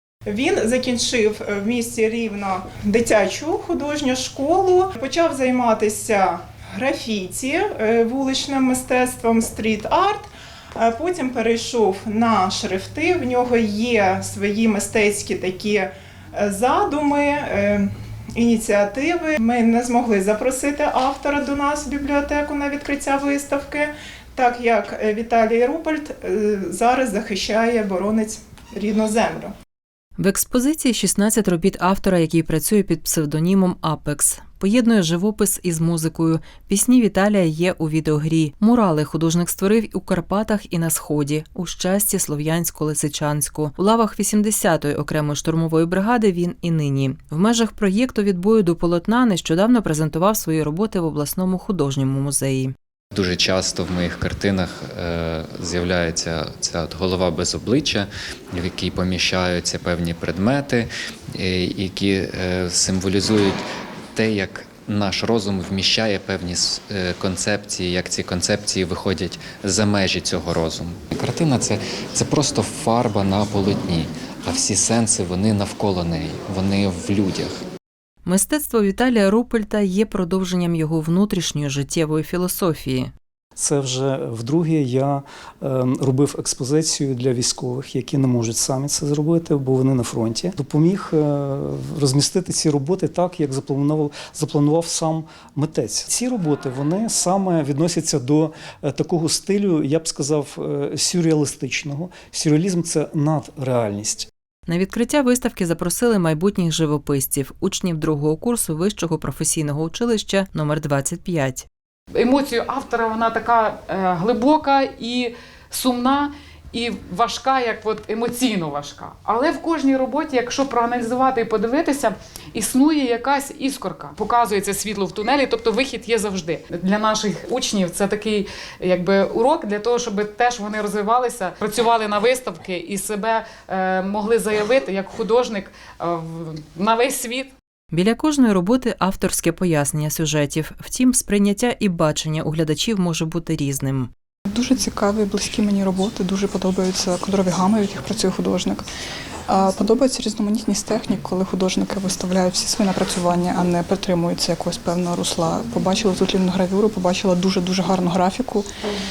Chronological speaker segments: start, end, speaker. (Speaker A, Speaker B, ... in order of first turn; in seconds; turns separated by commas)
Speaker A: 0.3-10.2, Speaker A: 10.8-29.5, Speaker B: 30.2-52.7, Speaker C: 53.1-63.6, Speaker C: 64.1-77.6, Speaker B: 78.2-83.1, Speaker D: 83.5-104.3, Speaker B: 104.7-111.7, Speaker E: 112.2-137.5, Speaker B: 137.9-144.1, Speaker F: 144.5-148.8, Speaker F: 149.5-158.7